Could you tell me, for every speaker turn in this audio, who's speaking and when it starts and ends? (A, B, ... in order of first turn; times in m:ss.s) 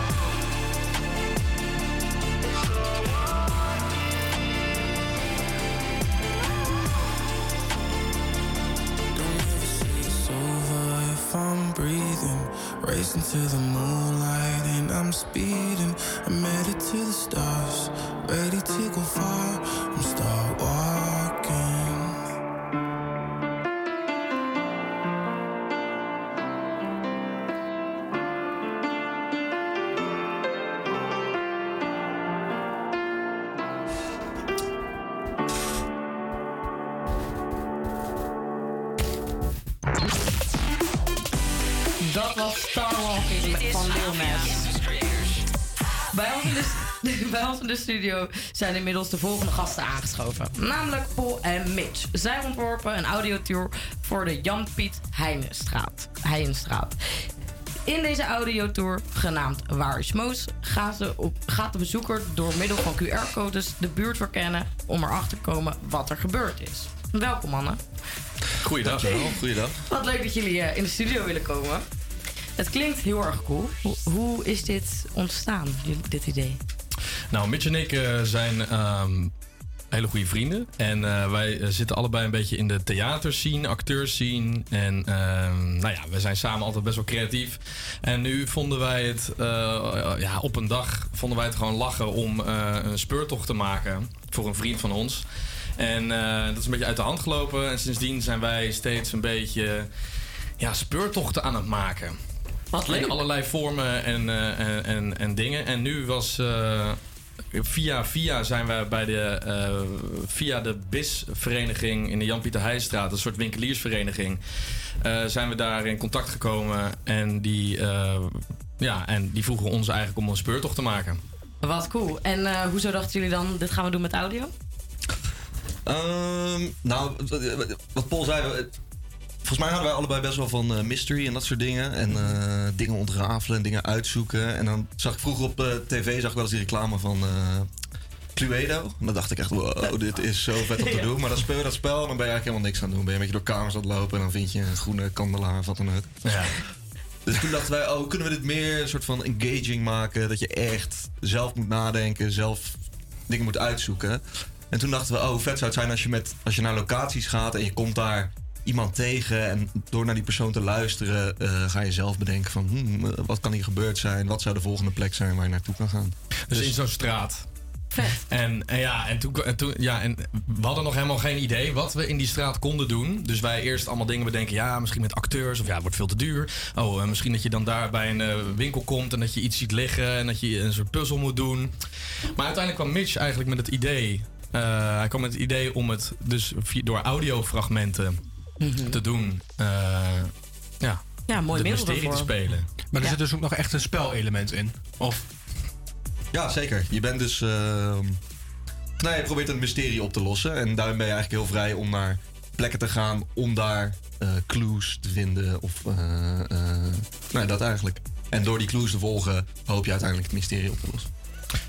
0:09.1-0:22.2 A
0:42.0-0:44.6 B
0:46.1-0:57.0 B
0:57.9-1:07.8 B
1:08.6-1:09.2 C
1:08.7-1:09.8 D
1:09.9-1:11.8 B
1:12.6-1:16.6 B
1:17.3-1:19.3 C
1:19.9-1:35.2 C
1:35.8-1:39.9 C
1:40.6-1:42.2 C
1:42.7-1:47.0 C
1:42.8-1:43.1 B
1:47.5-1:54.4 C
1:55.0-2:01.2 C
2:01.6-2:04.5 B
2:05.8-2:08.7 D
2:09.4-2:17.7 D
2:18.3-2:26.3 D
2:26.2-2:26.5 C
2:27.2-2:46.7 D
2:46.5-2:47.5 C
2:48.2-3:08.2 C
3:08.6-3:09.0 B
3:08.8-3:12.7 C
3:11.2-3:12.3 B
3:12.9-3:15.2 E
3:16.3-3:18.2 D
3:19.0-3:31.1 D